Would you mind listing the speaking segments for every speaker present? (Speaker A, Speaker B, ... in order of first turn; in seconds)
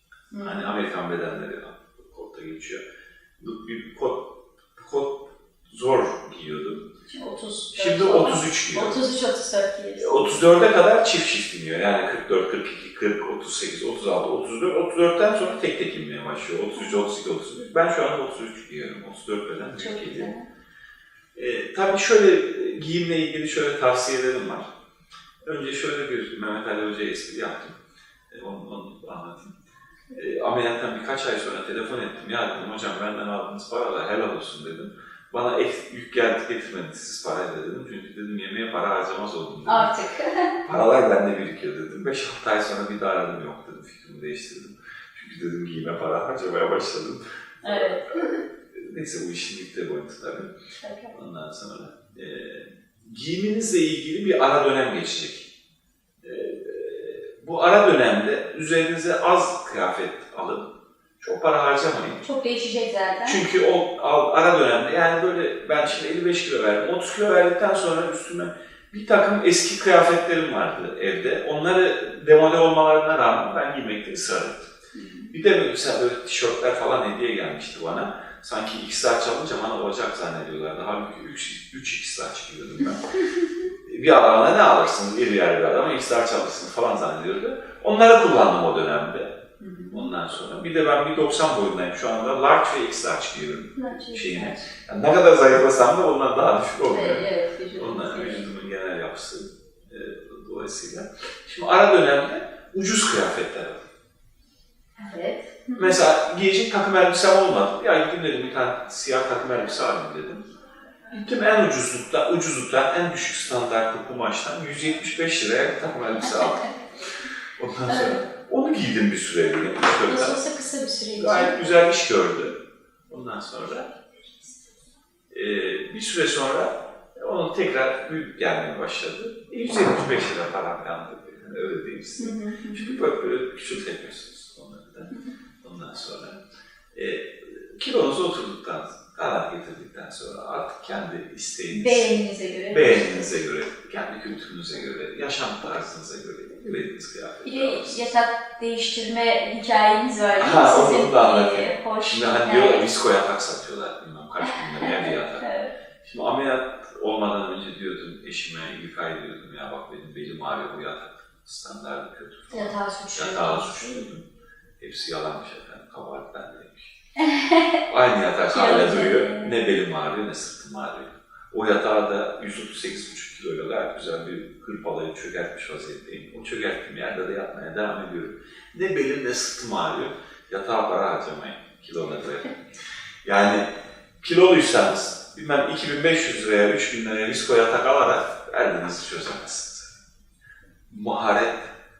Speaker A: 0.3-0.7, 7.1-10.4, 19.8-20.5, 39.6-40.5, 47.6-48.4, 50.8-51.1, 62.2-63.4, 74.9-75.3, 89.6-90.1, 93.8-94.7, 96.9-98.5, 105.0-106.0, 117.9-118.2, 120.0-121.6, 132.2-133.0, 141.7-143.3, 147.4-152.8, 154.4-155.7, 162.5-164.1, 167.2-167.8, 168.5-169.5
Speaker B: 0.4-2.8, 3.4-6.8, 7.7-9.0, 10.0-20.3, 21.3-24.7, 25.4-27.8, 28.3-29.5, 30.1-39.9, 40.6-50.5, 51.1-55.5, 56.2-62.2, 63.2-74.7, 75.3-83.1, 83.8-89.3, 89.9-103.8, 105.8-110.4, 111.1-116.7, 117.6-120.4, 121.2-122.5, 123.1-123.9, 125.3-136.4, 136.9-142.1, 142.7-148.1, 150.4-155.4, 156.0-164.2, 164.8-166.9, 167.8-182.5, 183.2-183.7, 184.2-190.0, 190.9-191.7